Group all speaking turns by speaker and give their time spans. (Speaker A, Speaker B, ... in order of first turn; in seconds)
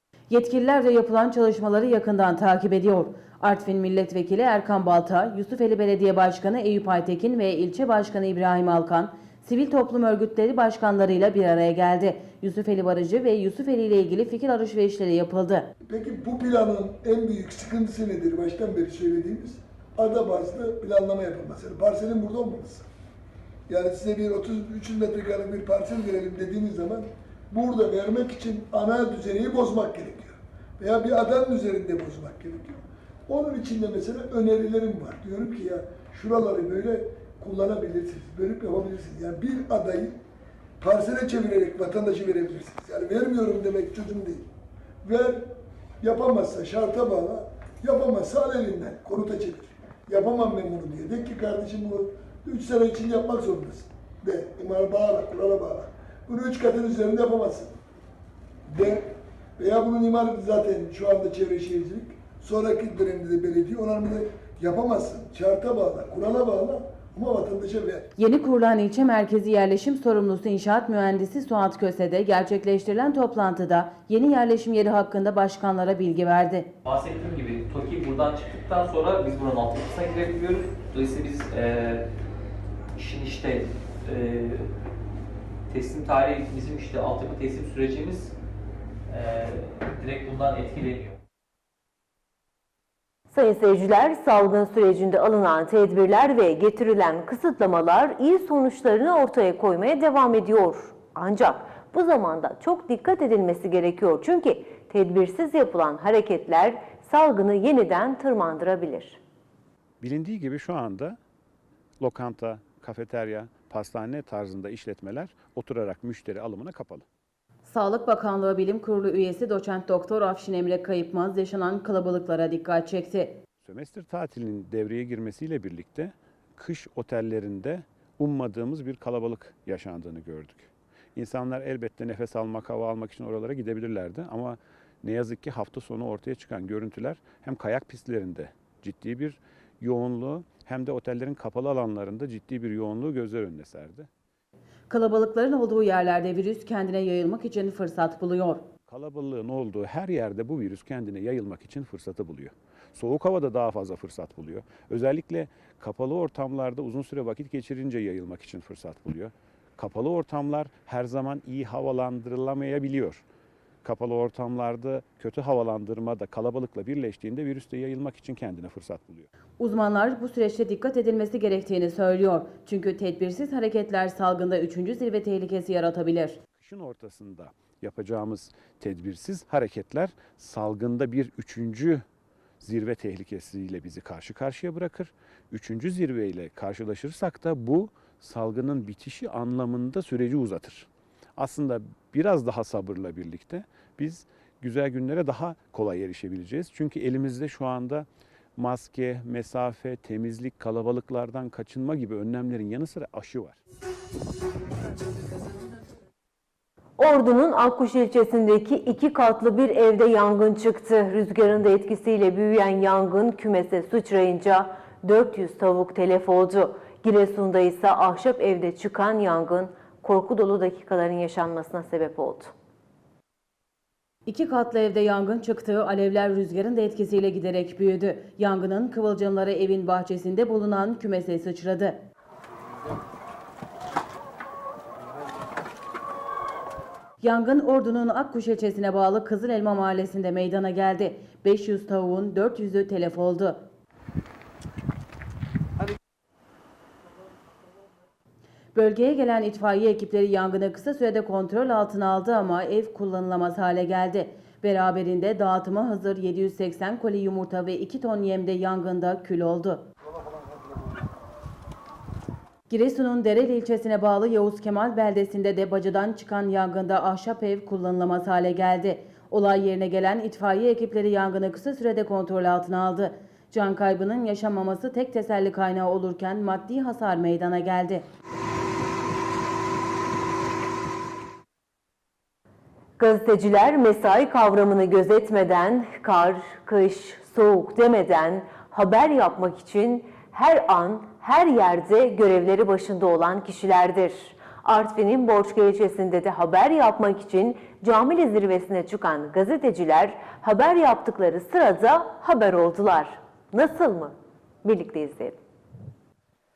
Speaker A: 0.3-15.7, 68.2-76.7, 117.6-123.4, 144.9-148.7, 169.6-176.4, 224.2-232.0, 237.2-243.7, 248.7-259.8, 262.7-278.0
Speaker B: 15.9-22.9, 23.7-40.2, 40.8-44.5, 45.0-45.5, 46.0-57.8, 58.7-68.1
Speaker C: 76.8-82.0, 82.9-84.7, 85.7-88.3, 89.1-91.2
Speaker D: 93.3-109.2, 207.0-222.5, 283.0-305.4
Speaker E: 110.0-111.2, 112.0-117.0, 123.6-144.1, 148.9-163.2, 163.8-169.3, 176.5-182.0, 182.6-203.6